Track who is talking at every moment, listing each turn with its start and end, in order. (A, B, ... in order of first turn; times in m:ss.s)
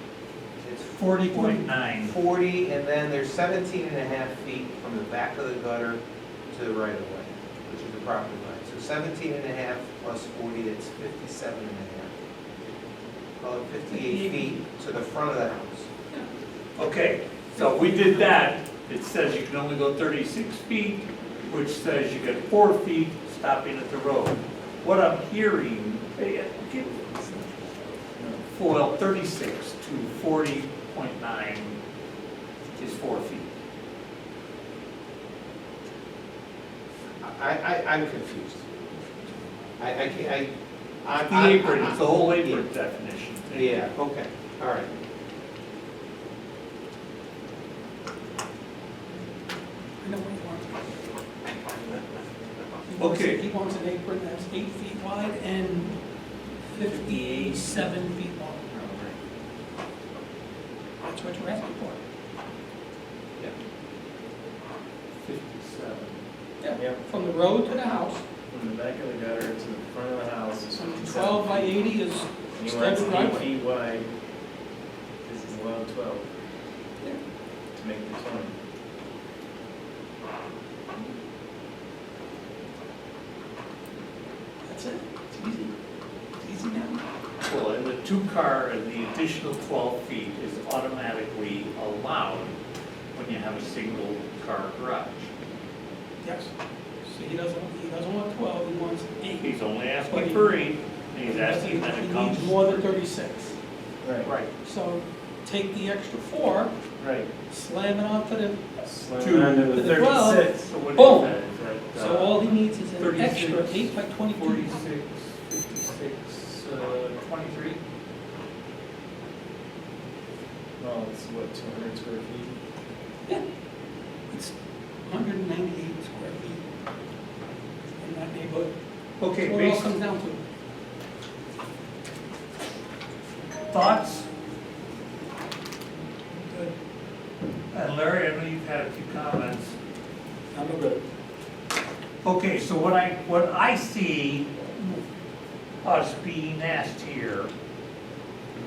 0:00.6-0:12.1 A
0:01.0-0:02.1 B
0:13.4-0:15.9 A
0:13.9-0:14.6 C
0:16.8-0:27.7 B
0:17.6-0:18.2 C
0:28.5-0:31.8 B
0:32.8-0:33.5 B
0:37.2-0:38.6 A
0:39.8-0:40.5 A
0:41.0-0:42.6 A
0:41.2-0:43.9 B
0:43.5-0:44.9 A
0:50.0-0:50.9 C
0:52.9-0:56.0 C
0:53.0-0:53.4 B
0:56.7-0:58.7 C
0:56.8-0:57.8 D
0:58.8-0:59.2 D
1:01.0-1:02.0 C
1:05.2-1:06.2 B
1:06.6-1:08.2 C
1:06.7-1:07.0 D
1:08.5-1:11.8 D
1:10.7-1:13.5 C
1:12.6-1:14.1 D
1:15.2-1:16.3 D
1:17.7-1:18.6 D
1:24.7-1:25.7 C
1:26.4-1:27.0 C
1:27.4-1:32.6 B
1:33.1-1:35.3 B
1:36.2-1:36.5 C
1:37.1-1:39.6 C
1:39.4-1:42.9 B
1:40.1-1:40.6 C
1:41.2-1:43.6 C
1:44.0-1:44.3 D
1:44.6-1:46.7 C
1:47.0-1:47.3 D
1:47.5-1:48.6 C
1:48.8-1:50.6 D
1:49.2-1:57.8 B
1:49.7-1:51.4 C
1:51.9-1:54.8 C
2:00.8-2:02.6 D
2:05.0-2:06.6 C
2:08.0-2:08.7 C
2:09.2-2:09.9 B
2:09.4-2:10.4 C
2:13.7-2:14.2 B
2:16.4-2:16.7 B
2:17.7-2:19.8 B
2:20.5-2:20.9 C
2:22.2-2:25.0 B
2:25.8-2:27.5 B